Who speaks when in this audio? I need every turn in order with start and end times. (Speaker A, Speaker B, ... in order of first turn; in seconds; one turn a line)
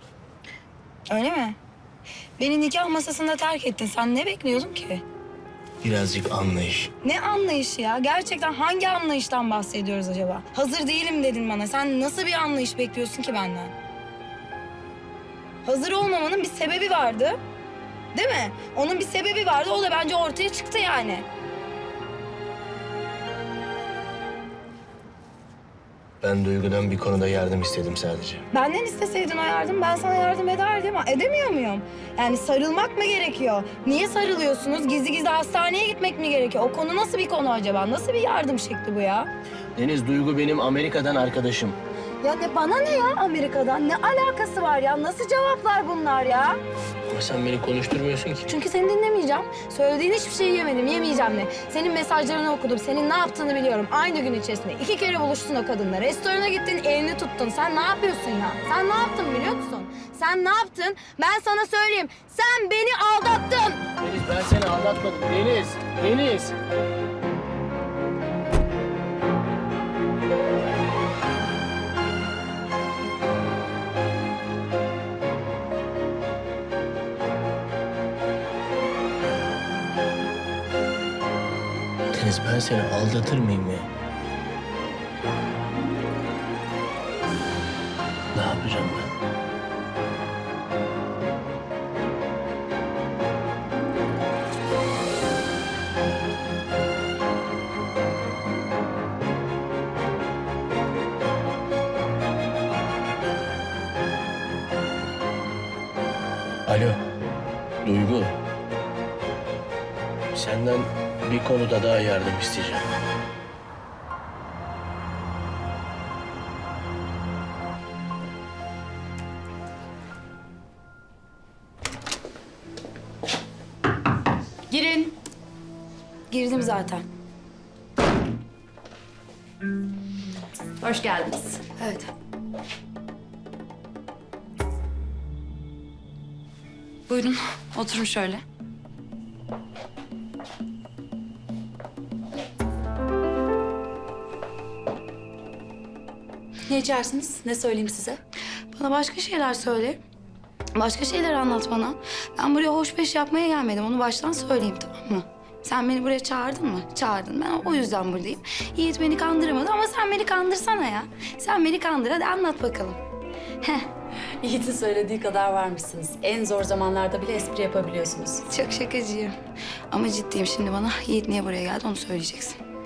Speaker A: 1.1-1.6
Speaker A: 2.4-5.0
Speaker B: 5.8-6.9
Speaker A: 7.0-13.7
Speaker A: 15.7-17.4
Speaker A: 18.1-21.2
Speaker B: 26.2-28.4
Speaker A: 28.5-39.3
Speaker B: 39.8-41.8
Speaker A: 42.2-46.6
Speaker B: 47.1-48.5
Speaker A: 48.5-63.8
Speaker B: 64.0-66.5
Speaker B: 82.1-83.9
Speaker B: 88.3-89.1
Speaker B: 106.7-107.0
Speaker B: 107.8-108.3
Speaker B: 110.3-112.9
Speaker C: 124.7-125.2
Speaker A: 126.3-127.0
Speaker C: 130.8-131.6
Speaker A: 131.8-132.1
Speaker C: 137.1-138.4
Speaker C: 146.7-148.2
Speaker A: 148.7-150.0
Speaker A: 150.7-163.0
Speaker A: 163.6-163.9
Speaker C: 164.4-168.4
Speaker A: 168.5-169.3
Speaker A: 169.9-172.6